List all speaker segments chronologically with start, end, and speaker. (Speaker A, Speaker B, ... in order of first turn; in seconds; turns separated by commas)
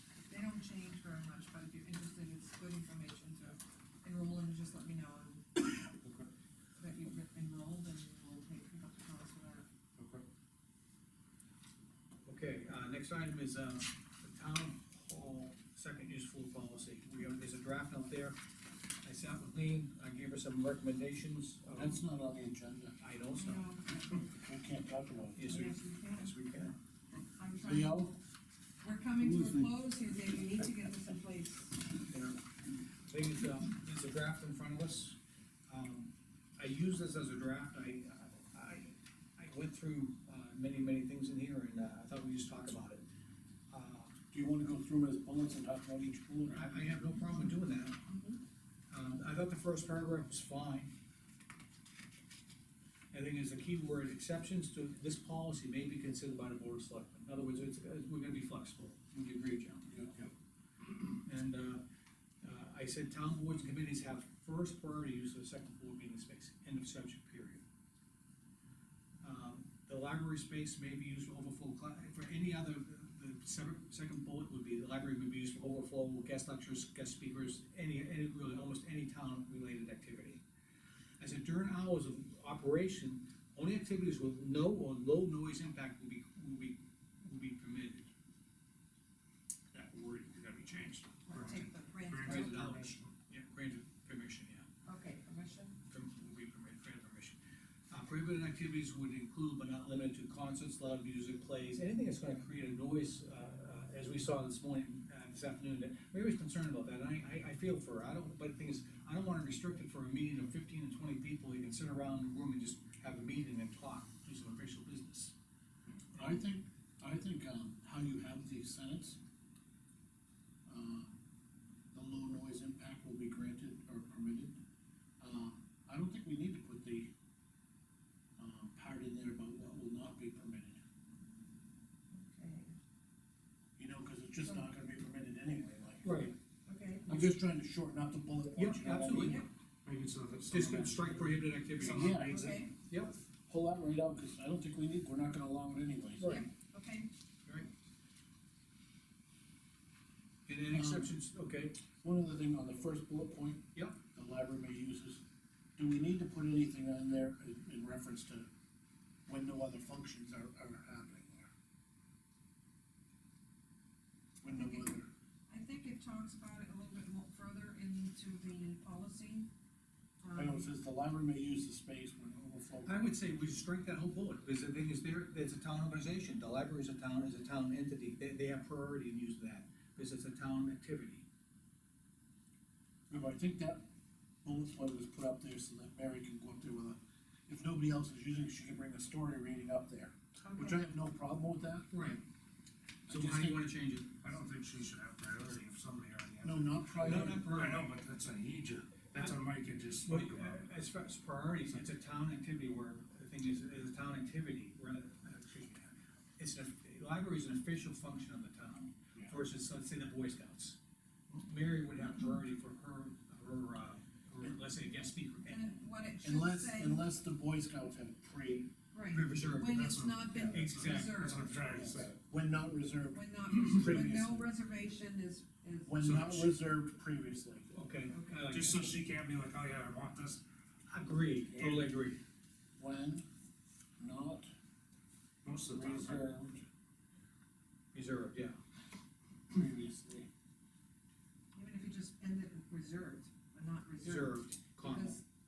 Speaker A: 0.2-5.7, Speaker B: 6.0-6.3, Speaker A: 6.8-9.7, Speaker B: 10.0-10.2, Speaker C: 12.2-18.4, Speaker C: 19.0-22.0, Speaker D: 21.8-23.0, Speaker C: 23.0-23.6, Speaker A: 23.3-24.3, Speaker D: 24.2-25.6, Speaker C: 25.4-26.7, Speaker A: 25.5-26.3, Speaker A: 27.4-28.1, Speaker D: 27.6-28.2, Speaker A: 28.8-31.9, Speaker D: 29.2-29.7, Speaker C: 32.0-32.4, Speaker C: 33.1-35.2, Speaker C: 35.7-43.0, Speaker C: 43.7-44.2, Speaker D: 44.3-47.0, Speaker C: 46.5-48.0, Speaker A: 48.1-48.4, Speaker C: 48.9-50.9, Speaker C: 53.1-60.3, Speaker C: 61.0-61.8, Speaker C: 62.4-67.6, Speaker C: 69.2-80.4, Speaker C: 81.2-88.1, Speaker C: 89.7-91.0, Speaker A: 91.3-92.6, Speaker B: 91.3-93.1, Speaker C: 92.2-94.7, Speaker A: 94.8-95.8, Speaker C: 95.9-97.4, Speaker C: 97.9-115.3, Speaker D: 116.1-119.2, Speaker D: 120.7-121.1, Speaker D: 121.9-124.6, Speaker D: 125.2-127.1, Speaker D: 128.4-130.8, Speaker A: 132.1-132.7, Speaker D: 133.8-136.2, Speaker C: 136.0-136.3, Speaker A: 136.7-137.2, Speaker D: 137.1-139.4, Speaker C: 138.5-139.4, Speaker A: 139.2-139.4, Speaker B: 139.8-142.6, Speaker C: 140.5-143.1, Speaker D: 141.9-142.5, Speaker A: 142.2-142.8, Speaker D: 143.5-146.4, Speaker C: 146.2-146.4, Speaker A: 146.2-147.1, Speaker C: 150.5-151.8, Speaker D: 150.7-151.1, Speaker D: 152.0-155.2, Speaker D: 155.8-158.5, Speaker D: 159.3-161.5, Speaker D: 164.4-165.1, Speaker A: 164.5-164.9, Speaker A: 165.5-169.5, Speaker A: 170.2-170.7, Speaker D: 170.3-173.1, Speaker C: 172.8-181.2, Speaker D: 183.1-183.8, Speaker D: 184.4-191.9, Speaker C: 191.9-192.2, Speaker D: 193.1-193.6, Speaker C: 193.1-194.2, Speaker B: 194.2-200.6, Speaker D: 196.4-197.5, Speaker C: 197.0-197.9, Speaker C: 200.0-210.8, Speaker C: 211.3-215.7, Speaker A: 215.4-217.0, Speaker D: 216.2-218.7, Speaker A: 218.9-221.6, Speaker C: 219.1-219.9, Speaker B: 219.6-222.2, Speaker C: 220.5-221.3, Speaker D: 221.7-224.5, Speaker A: 223.1-226.0, Speaker D: 225.8-227.7, Speaker B: 226.0-226.5, Speaker C: 227.7-228.9, Speaker B: 228.5-230.4, Speaker C: 230.9-232.2, Speaker D: 231.5-232.0, Speaker D: 232.8-233.2, Speaker D: 234.0-234.5, Speaker B: 235.4-236.5, Speaker D: 235.7-236.6, Speaker C: 237.9-238.6, Speaker D: 239.5-240.3, Speaker A: 241.5-245.2, Speaker C: 244.0-245.2